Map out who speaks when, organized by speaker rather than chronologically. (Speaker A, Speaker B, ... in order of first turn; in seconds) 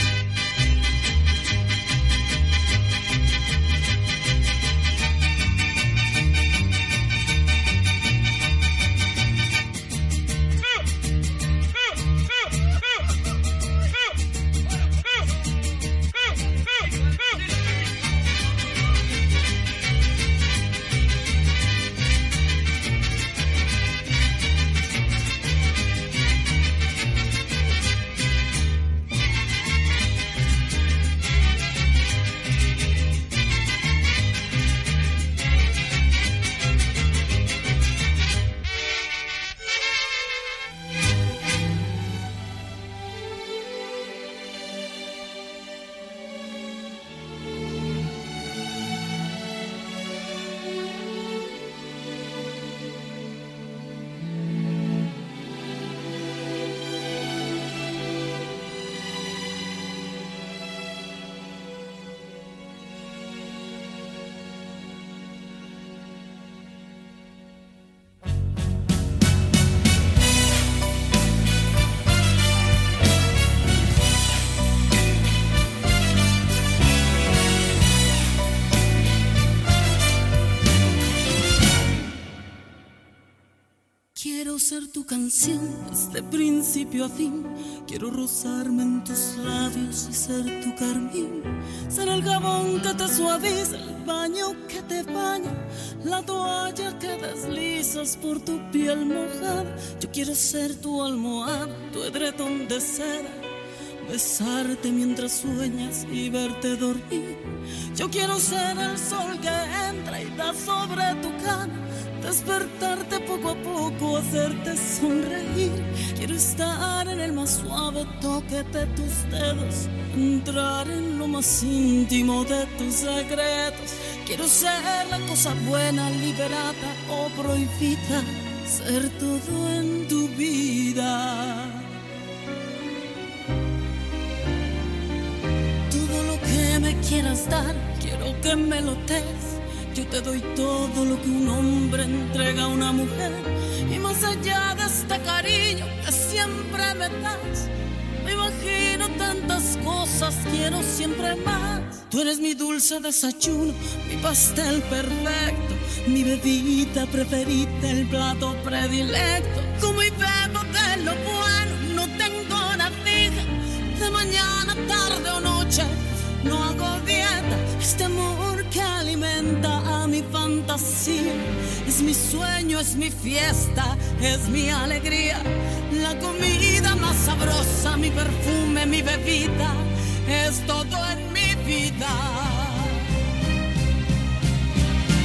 Speaker A: 84.2-103.5, 104.0-131.9, 135.9-147.7, 148.2-183.1